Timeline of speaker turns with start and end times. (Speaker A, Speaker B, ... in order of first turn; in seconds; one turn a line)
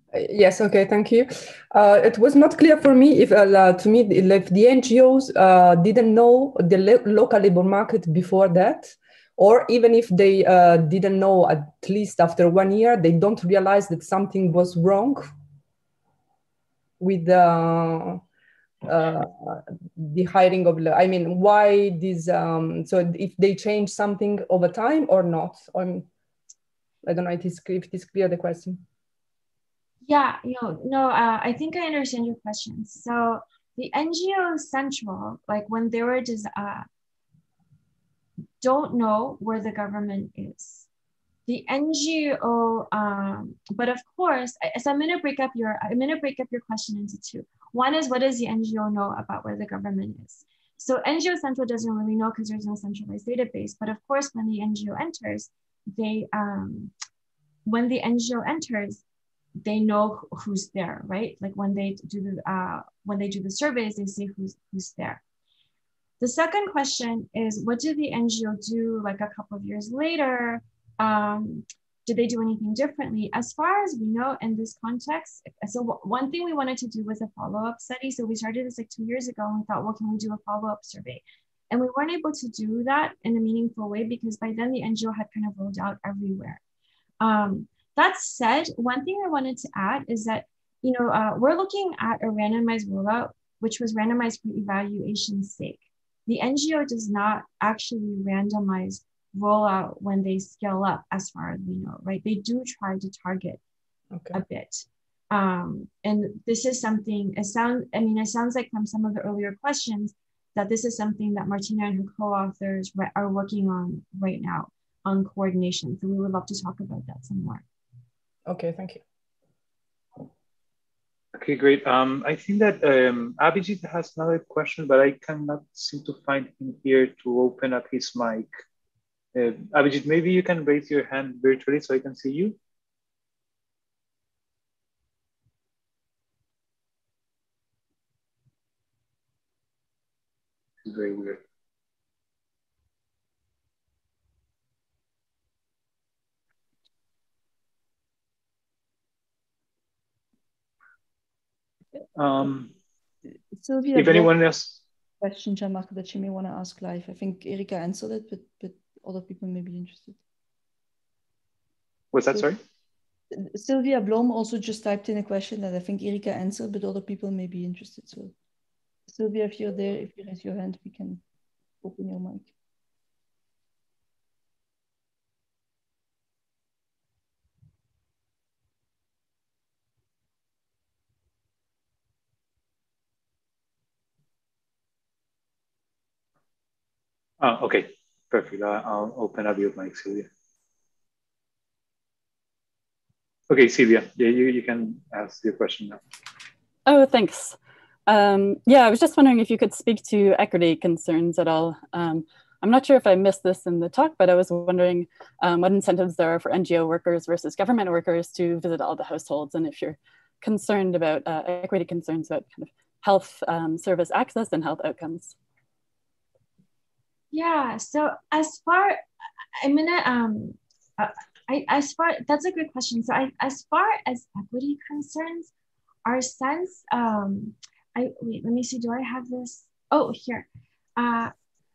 Speaker A: 0.1-15.3
Speaker A: 17.0-18.2
Speaker A: 18.9-26.1
Speaker A: 27.0-28.8
Speaker B: 30.1-36.9
Speaker B: 38.6-40.9
Speaker B: 41.5-56.9
Speaker B: 57.6-59.0
Speaker B: 59.6-65.2
Speaker B: 66.2-86.6
Speaker B: 87.2-103.6
Speaker B: 104.3-117.6
Speaker A: 118.5-119.0
Speaker C: 121.3-128.5
Speaker C: 129.3-132.6
Speaker C: 140.8-141.4
Speaker C: 152.2-152.7
Speaker D: 153.6-154.3
Speaker C: 153.9-154.8
Speaker D: 155.2-160.2
Speaker C: 162.1-162.6
Speaker D: 163.3-168.3
Speaker D: 169.1-171.2
Speaker D: 171.8-172.5
Speaker C: 187.4-190.3
Speaker C: 193.5-196.0
Speaker E: 196.8-215.3
Speaker B: 217.3-219.0
Speaker B: 219.6-225.5
Speaker B: 226.0-231.3